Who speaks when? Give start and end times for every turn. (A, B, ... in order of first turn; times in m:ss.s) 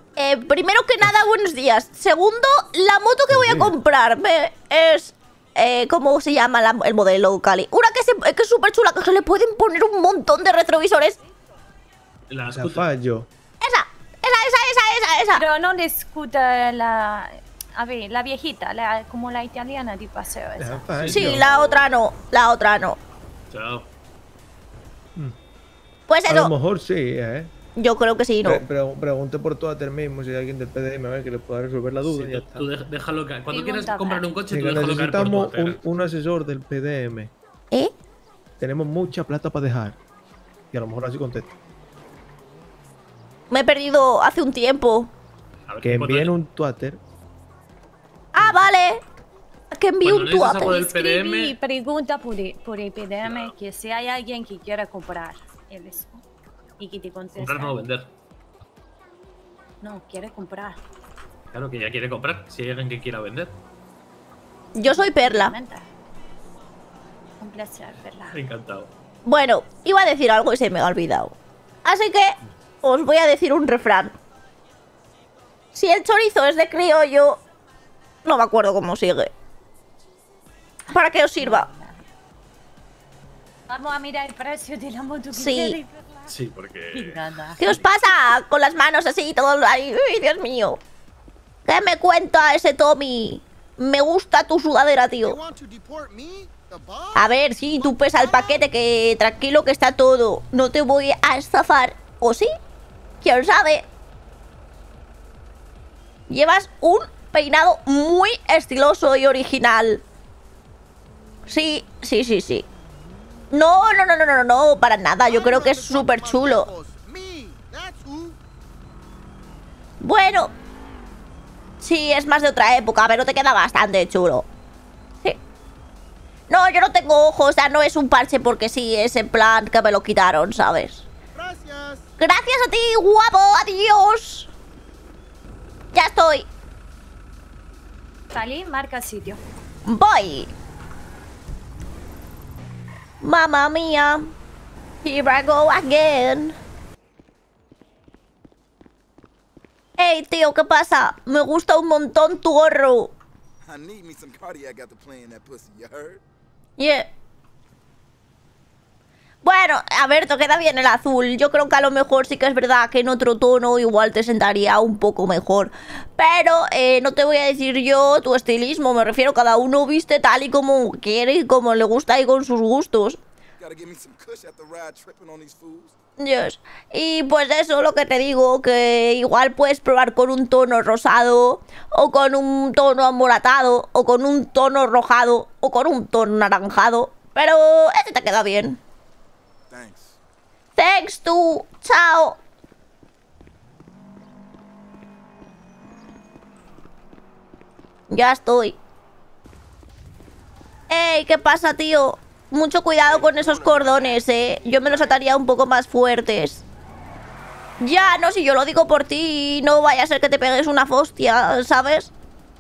0:00.2-0:11.2 A
0:03.3-0:03.7 B
0:12.3-0:12.9 C
0:12.5-0:13.3 B
0:13.6-0:15.4 A
0:15.4-0:20.9 D
0:20.6-0:21.5 B
0:21.0-0:21.4 C
0:21.1-0:23.0 A
0:23.5-0:23.9 C
0:26.1-0:26.5 A
0:26.3-0:27.5 B
0:27.8-0:28.6 A
0:28.4-0:32.7 B
0:32.0-0:36.0 C
0:33.5-0:34.3 D
0:34.5-0:37.3 B
0:38.6-0:40.0 B
0:40.7-0:41.5 B
0:43.5-0:45.1 A
0:45.7-0:46.3 C
0:45.8-0:47.0 B
0:48.3-0:49.0 A
0:48.4-0:48.7 B
0:49.7-0:50.9 A
0:50.0-0:51.5 C
0:50.7-0:56.2 D
0:53.2-0:53.5 C
0:56.8-0:57.8 D
0:57.4-0:58.1 C
0:59.8-1:00.8 D
1:01.5-1:03.5 C
1:04.8-1:05.5 A
1:04.8-1:05.9 D
1:07.4-1:08.4 D
1:08.3-1:08.9 C
1:09.2-1:14.2 A
1:15.7-1:17.4 A
1:18.2-1:19.3 A
1:20.9-1:21.7 A
1:21.4-1:22.0 D
1:23.7-1:26.2 D
1:25.3-1:25.8 A
1:26.3-1:27.2 C
1:26.9-1:27.6 D
1:27.6-1:30.8 A
1:31.7-1:35.4 A
1:35.2-1:37.3 E
1:37.2-1:42.5 A
1:37.8-1:38.1 E
1:43.2-1:43.9 A
1:46.3-1:50.0 A
1:51.5-1:52.7 A
1:53.5-1:56.7 A
1:55.3-1:58.4 E
2:00.0-2:00.5 A
2:01.8-2:04.5 A
2:06.5-2:11.1 A
2:11.3-2:12.0 E
2:12.2-2:14.5 A
2:15.9-2:16.5 A
2:18.3-2:19.4 D
2:19.9-2:20.5 A
2:23.2-2:24.3 A
2:25.0-2:26.6 A
2:30.0-2:33.1 A
2:33.6-2:36.2 E
2:36.8-2:37.1 A
2:39.4-2:53.2 A
2:53.6-2:56.0 E
2:56.2-3:08.8 A
3:09.7-3:10.2 E
3:10.8-3:12.4 A
3:18.1-3:18.8 A
3:20.9-3:26.6 A
3:27.8-3:32.1 A